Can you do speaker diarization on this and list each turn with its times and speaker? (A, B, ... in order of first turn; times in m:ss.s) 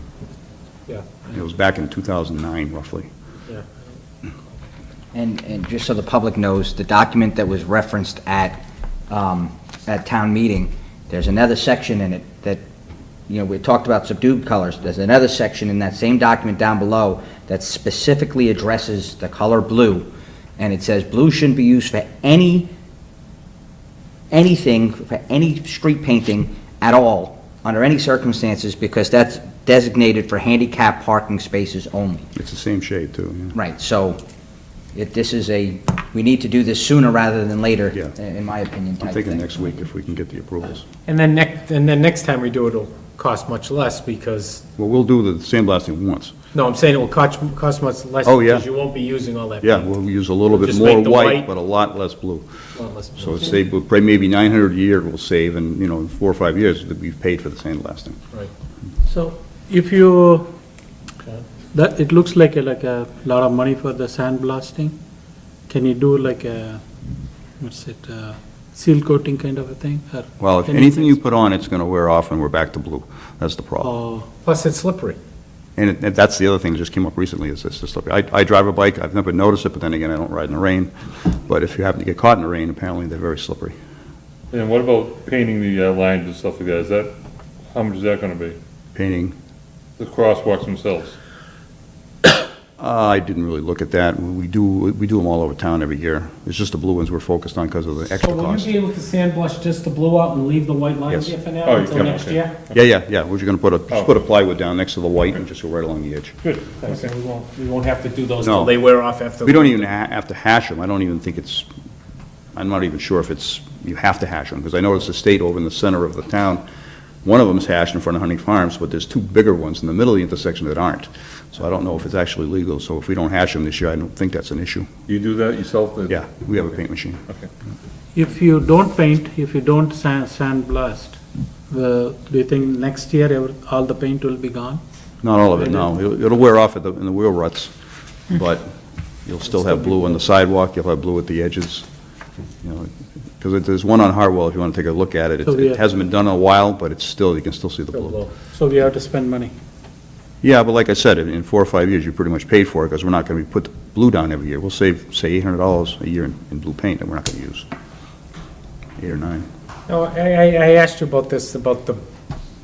0:00.9-0:01.3 A
0:01.3-0:03.1 B
0:05.1-0:12.6 C
0:13.3-0:22.7 C
0:24.3-0:32.3 C
0:32.3-0:33.6 B
0:33.5-0:34.2 C
0:34.9-0:39.5 C
0:39.0-0:40.8 B
0:41.0-0:44.6 A
0:44.8-0:46.3 B
0:46.5-0:49.9 A
0:48.2-0:48.6 B
0:49.6-0:52.4 B
0:50.5-0:51.5 A
0:52.8-0:53.5 A
0:53.2-0:58.2 B
0:59.1-1:00.5 D
1:01.7-1:05.0 D
1:05.7-1:06.8 D
1:07.6-1:11.1 D
1:10.4-1:13.9 B
1:13.8-1:14.3 D
1:14.4-1:15.2 A
1:15.8-1:23.7 B
1:24.5-1:27.1 E
1:27.7-1:28.6 E
1:28.9-1:29.3 B
1:30.0-1:31.2 E
1:32.8-1:38.7 B
1:38.2-1:42.6 A
1:41.1-1:41.3 B
1:41.6-1:42.8 E
1:42.7-1:46.3 B
1:46.4-1:46.8 E
1:46.8-1:49.8 A
1:48.4-1:48.7 B
1:49.4-1:51.7 B
1:52.6-1:56.6 B
1:57.2-2:04.9 B
2:05.1-2:06.3 E
2:06.1-2:07.2 B
2:08.1-2:11.2 D
2:11.7-2:14.8 D
2:15.2-2:17.7 B
2:18.3-2:18.7 B
2:19.2-2:21.9 B
2:22.6-2:28.2 B
2:25.5-2:25.8 D
2:27.9-2:28.3 A
2:28.5-2:29.5 D
2:30.4-2:37.7 B
2:39.0-2:39.5 B
2:39.9-2:42.0 A